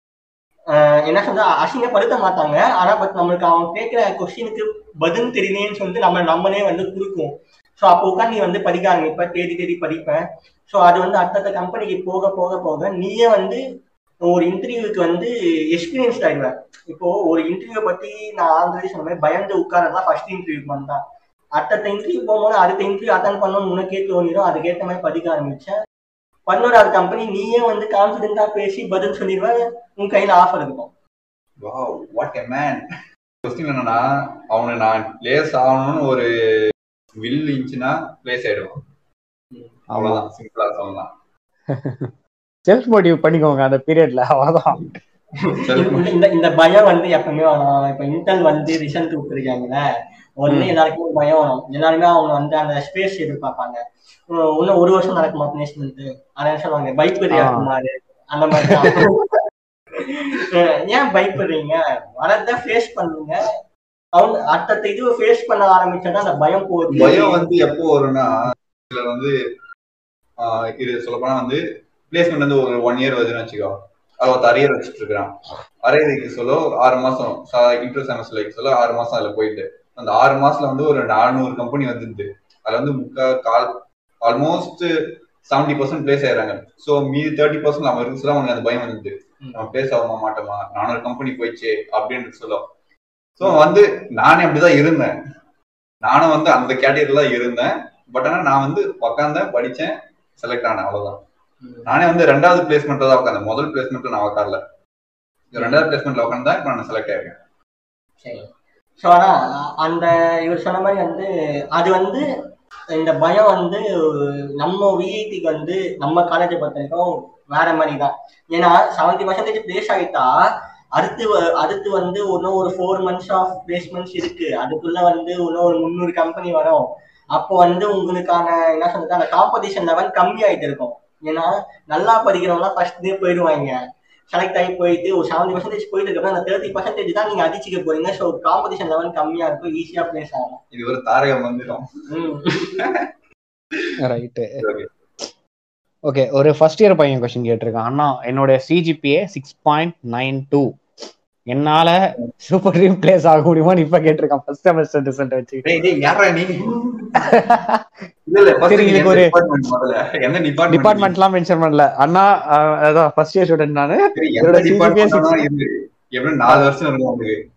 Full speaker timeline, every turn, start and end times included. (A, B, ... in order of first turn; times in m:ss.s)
0:00.7-0:13.6 A
0:14.2-0:21.0 A
0:21.6-0:25.8 A
0:26.5-0:30.9 A
0:31.6-0:32.8 B
0:33.4-0:36.3 B
0:37.2-0:38.8 B
0:39.9-0:40.2 C
0:40.0-0:41.1 B
0:41.7-0:42.1 C
0:42.7-0:45.0 C
0:45.5-0:49.8 A
0:45.6-0:46.1 B
0:50.4-0:59.3 A
0:50.5-0:50.8 C
0:57.3-0:57.7 C
0:58.7-0:59.0 C
1:00.0-1:03.5 A
1:04.2-1:07.5 A
1:06.9-1:09.4 B
1:10.4-1:24.9 B
1:25.5-1:32.6 B
1:33.4-1:35.1 B
1:36.0-1:41.2 B
1:41.9-1:44.6 B
1:45.5-1:47.4 B
1:45.6-1:45.9 A
1:48.2-1:48.5 A
1:49.0-1:52.2 A
1:53.0-2:00.4 A
2:01.0-2:13.8 A
2:14.3-2:20.6 A
2:20.7-2:21.9 B
2:22.1-2:22.8 A
2:24.0-2:24.6 C
2:24.6-2:24.9 B
2:26.1-2:30.7 C
2:31.5-2:35.7 C
2:35.6-2:37.3 B
2:37.2-2:37.8 C
2:38.3-2:41.1 B
2:38.6-2:39.3 C
2:40.7-2:45.3 C
2:44.2-2:47.4 B